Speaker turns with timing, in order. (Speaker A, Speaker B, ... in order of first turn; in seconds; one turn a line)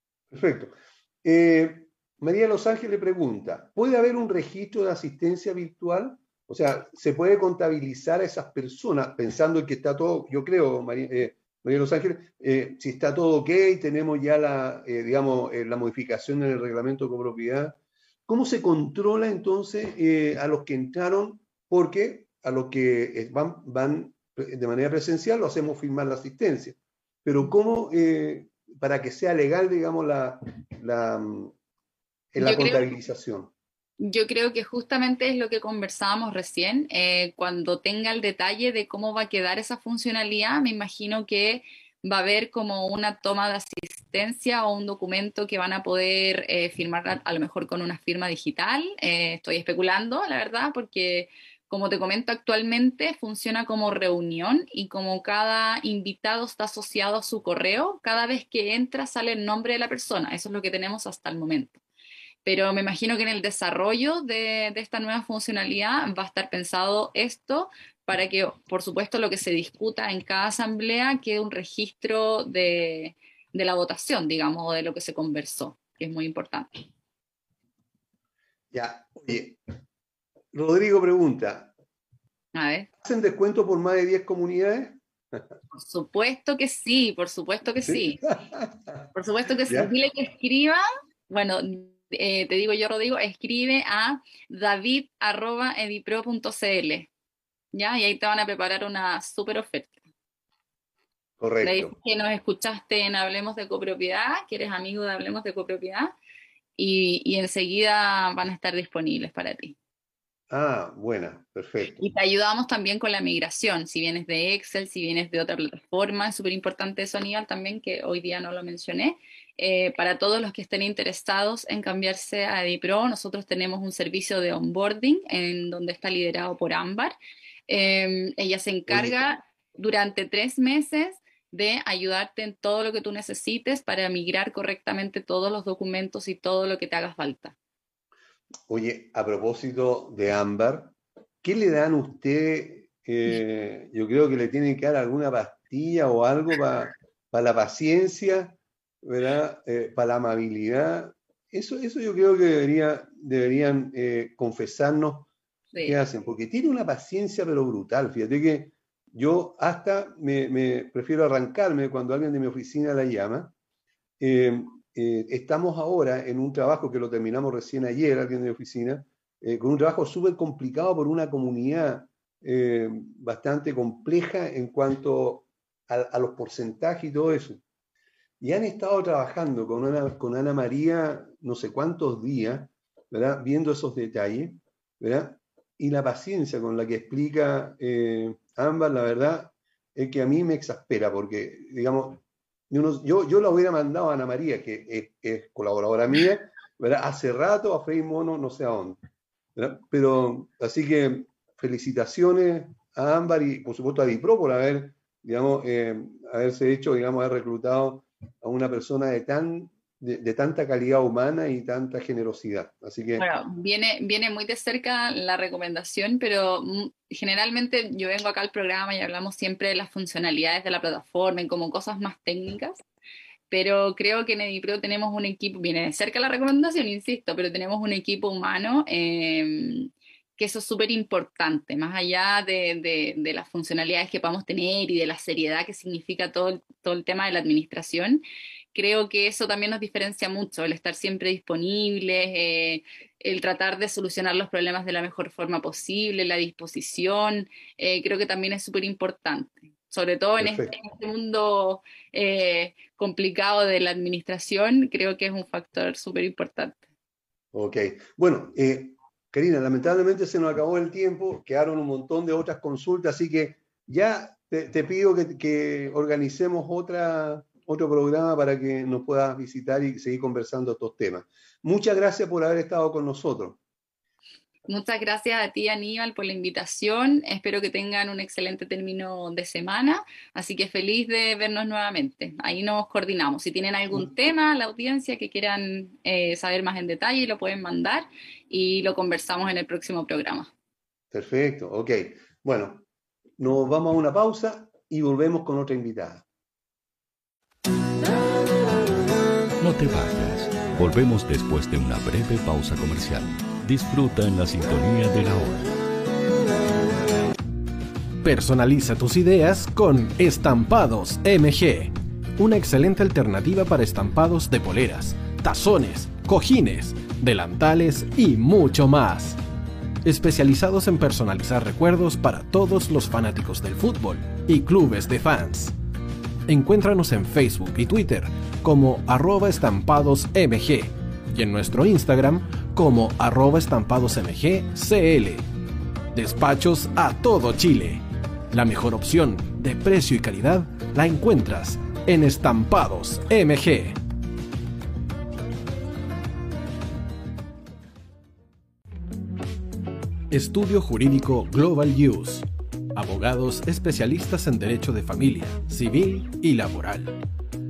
Speaker A: 0.3-17.8
Speaker A: 18.3-31.5
Speaker A: 32.3-33.5
Speaker B: 32.4-32.8
Speaker B: 34.0-61.8
Speaker B: 62.4-76.7
Speaker A: 78.7-79.6
Speaker A: 80.5-81.7
Speaker B: 82.5-82.9
Speaker A: 83.0-85.6
Speaker B: 85.7-88.2
Speaker A: 87.9-89.1
Speaker B: 89.1-97.1
Speaker A: 89.6-89.9
Speaker B: 97.7-100.0
Speaker A: 101.4-101.9
Speaker B: 101.6-106.1
Speaker B: 106.8-109.8
Speaker A: 110.5-112.1
Speaker B: 112.0-127.2
Speaker B: 127.7-137.6
Speaker A: 128.9-129.2
Speaker A: 138.7-155.3
Speaker B: 155.7-156.0
Speaker A: 155.8-163.5
Speaker A: 164.2-177.6
Speaker A: 178.4-199.0
Speaker A: 199.6-213.3
Speaker B: 213.2-222.8
Speaker B: 223.5-256.8
Speaker A: 250.4-250.7
Speaker A: 257.5-273.6
Speaker B: 274.7-290.5
Speaker A: 291.1-292.9
Speaker A: 293.4-296.2
Speaker C: 299.6-305.7
Speaker D: 308.2-319.4
Speaker D: 320.0-325.8
Speaker D: 326.5-335.4
Speaker D: 336.1-344.0
Speaker D: 350.3-357.2